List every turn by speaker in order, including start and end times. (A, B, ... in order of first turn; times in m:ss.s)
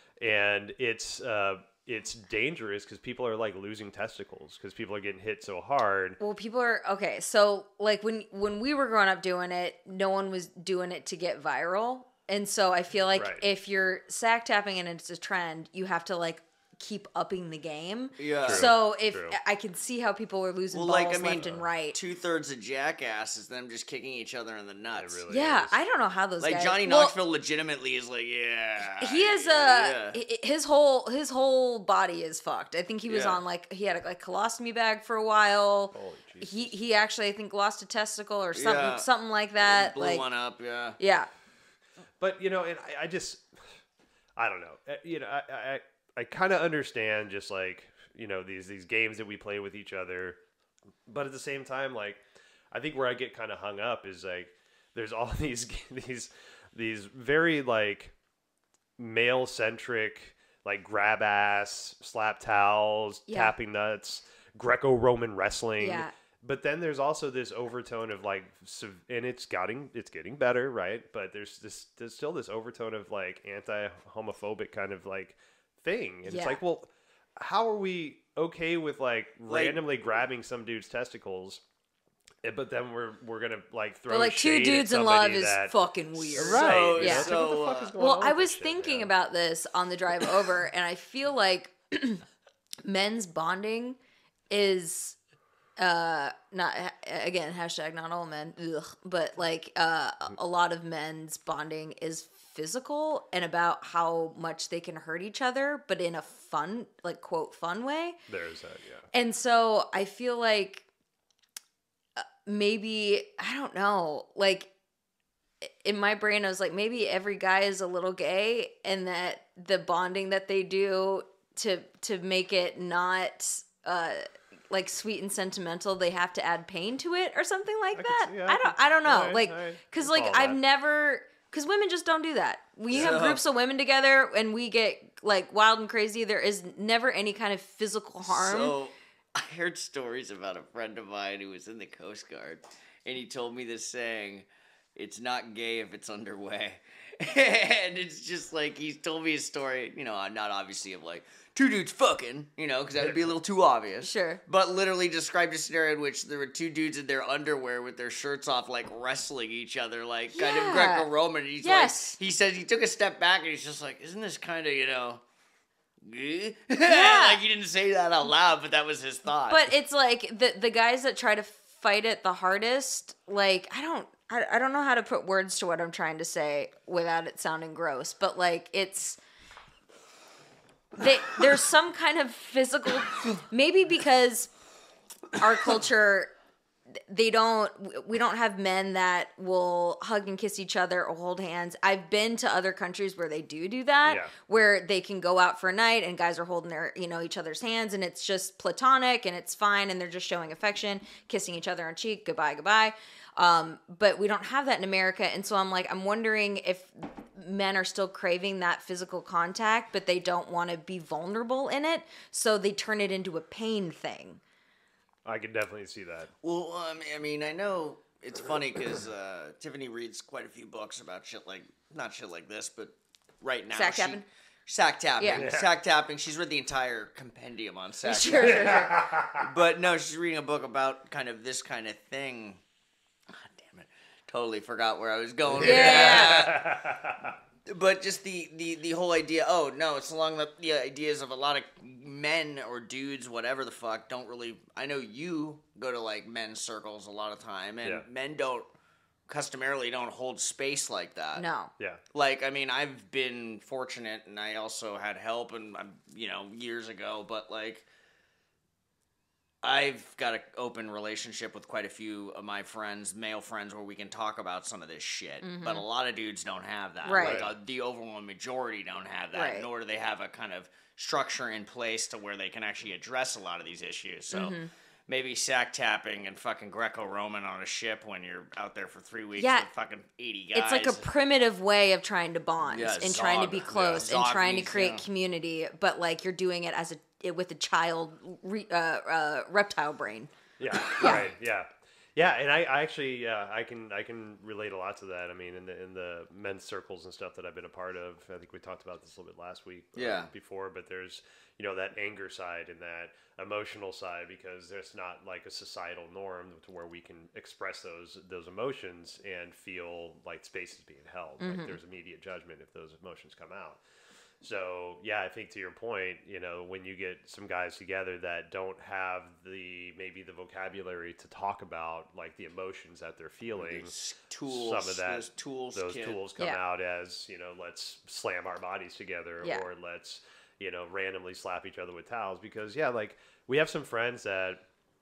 0:00.2-0:06.2 A
0:06.2-0:22.0 B
0:13.2-0:13.4 A
0:18.2-0:18.7 C
0:18.5-0:19.4 A
0:20.7-0:25.2 C
0:21.2-0:21.7 A
0:24.9-0:25.8 A
0:25.3-0:27.2 B
0:26.4-0:30.2 C
0:28.8-0:40.2 B
0:33.1-0:33.4 C
0:35.9-0:36.8 A
0:38.6-0:39.1 C
0:39.6-0:41.0 C
0:41.0-0:41.3 B
0:42.2-0:43.7 A
0:44.4-0:50.4 A
0:51.1-0:58.2 A
0:59.0-1:21.6 A
1:03.3-1:03.5 B
1:05.8-1:06.1 B
1:16.2-1:16.6 B
1:19.5-1:19.8 C
1:22.4-1:29.1 A
1:24.1-1:32.2 B
1:26.3-1:28.0 C
1:32.8-1:34.0 B
1:34.5-1:35.2 B
1:35.8-1:48.2 B
1:48.3-1:49.1 A
1:49.1-1:50.9 B
1:52.2-1:54.7 B
1:55.6-2:18.7 B
2:08.0-2:10.6 A
2:12.9-2:13.4 C
2:18.3-2:45.2 C
2:34.0-2:34.4 B
2:40.4-2:41.1 B
2:41.6-2:42.2 B
2:46.0-2:49.7 C
2:46.8-2:47.4 B
2:49.5-2:59.2 B
3:01.0-3:04.5 B
3:05.3-3:06.3 B
3:06.9-3:34.4 B
3:14.1-3:14.3 A
3:35.2-3:36.3 A
3:36.4-3:52.6 C
3:43.7-3:44.2 B
3:45.2-3:45.4 B
3:45.4-3:45.7 A
3:48.0-3:49.0 B
3:48.5-3:49.5 A
3:53.3-3:56.6 C
3:55.5-3:57.4 A
3:55.6-3:56.5 B
3:57.7-4:08.7 C
4:09.3-4:11.4 C
4:11.4-4:11.7 B
4:12.1-4:17.8 C
4:19.6-4:34.6 C
4:25.4-4:25.8 B
4:27.0-4:27.5 B
4:27.2-4:27.5 A
4:29.3-4:29.7 B
4:34.3-4:34.7 B
4:35.1-4:41.1 C
4:39.4-4:39.7 B
4:40.5-4:50.3 B
4:42.6-4:45.1 C
4:43.7-4:44.1 A
4:50.6-5:13.8 A
4:50.8-4:51.2 B
5:00.0-5:00.3 C
5:11.4-5:11.8 B
5:14.4-5:23.9 A
5:23.6-5:26.2 C
5:24.5-5:34.6 A